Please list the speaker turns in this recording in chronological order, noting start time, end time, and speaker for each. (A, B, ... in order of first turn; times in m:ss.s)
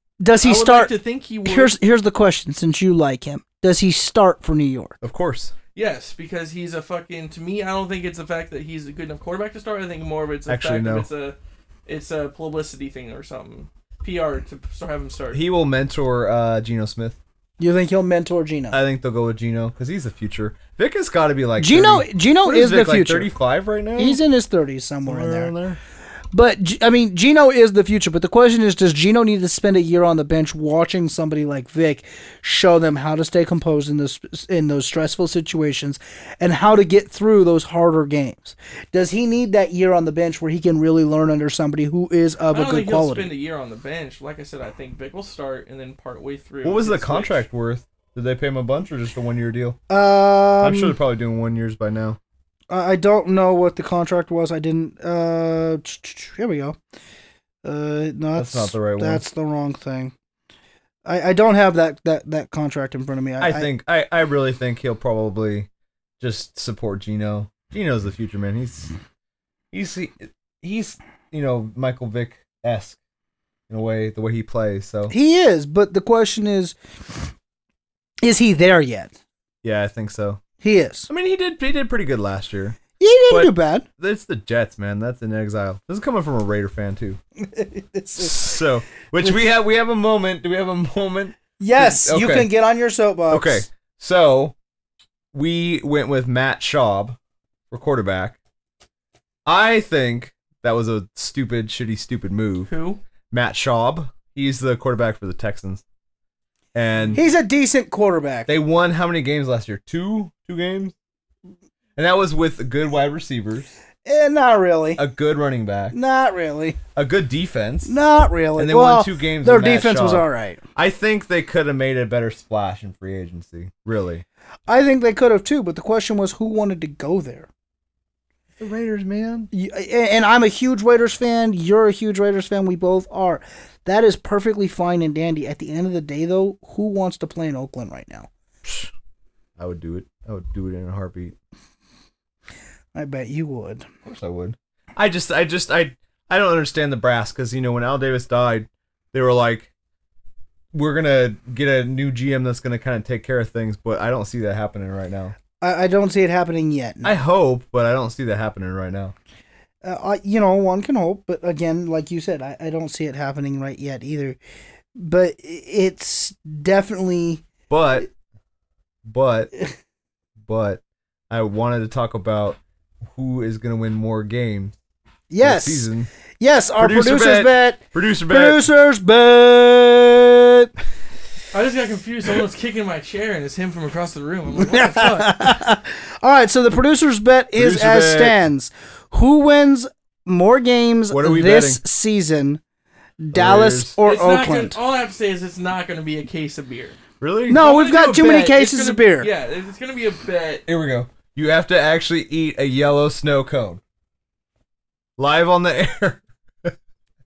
0:00.2-0:00.9 A
0:00.4-0:01.7 B
0:01.4-0:05.0 A
0:05.0-0:05.5 C
0:05.7-0:15.4 B
0:10.5-0:11.1 C
0:15.3-0:17.2 C
0:17.6-0:18.8 A
0:18.7-0:24.2 C
0:21.6-0:23.3 A
0:24.0-0:25.5 A
0:25.0-0:25.8 C
0:26.3-0:43.3 A
0:42.5-0:47.4 B
0:46.6-0:49.8 C
0:49.9-0:51.0 A
0:50.6-0:52.2 C
0:52.7-0:56.8 A
0:57.6-1:00.1 A
0:58.4-0:59.2 C
1:01.0-1:03.7 A
1:03.4-1:05.7 C
1:06.2-1:08.9 C
1:09.7-1:13.0 C
1:13.7-1:15.1 C
1:15.1-1:16.8 A
1:18.2-1:19.1 A
1:19.6-1:20.4 C
1:20.6-1:21.1 A
1:21.1-1:27.2 C
1:23.0-1:23.8 A
1:27.4-1:28.4 A
1:28.2-1:32.5 C
1:31.6-1:33.6 A
1:33.3-1:34.5 C
1:35.3-1:37.2 C
1:37.7-1:38.4 C
1:39.4-1:42.7 C
1:42.7-1:43.0 B
1:43.3-1:45.8 C
1:46.7-1:47.2 C
1:47.1-1:48.5 A
1:48.5-1:50.9 C
1:52.0-1:53.7 C
1:54.0-1:55.0 A
1:55.0-1:55.9 C
1:55.9-1:56.8 A
1:56.9-1:57.9 C
1:57.9-2:00.6 A
1:58.6-2:04.2 C
2:04.7-2:07.5 A
2:08.6-2:09.5 C
2:09.5-2:18.3 A
2:18.6-2:18.9 C
2:19.6-2:21.3 C
2:22.9-2:23.9 A
2:24.0-2:29.7 C
2:30.7-2:35.4 C
2:35.6-2:37.1 A
2:37.0-2:39.1 C
2:39.8-2:44.4 A
2:45.0-2:47.4 A
2:47.7-2:48.1 C
2:49.0-2:49.5 C
2:50.4-2:52.6 C
2:53.1-2:54.7 C
2:55.3-3:00.7 A
2:55.4-2:56.1 C
2:56.8-2:58.6 C
3:01.5-3:05.4 B
3:04.6-3:12.6 A
3:07.5-3:08.4 C
3:11.1-3:11.8 C
3:13.2-3:14.8 A
3:13.3-3:13.9 C
3:14.0-3:17.0 B
3:17.2-3:17.6 C
3:17.5-3:19.3 A
3:17.5-3:20.6 B
3:20.7-3:23.8 C
3:25.2-3:26.7 C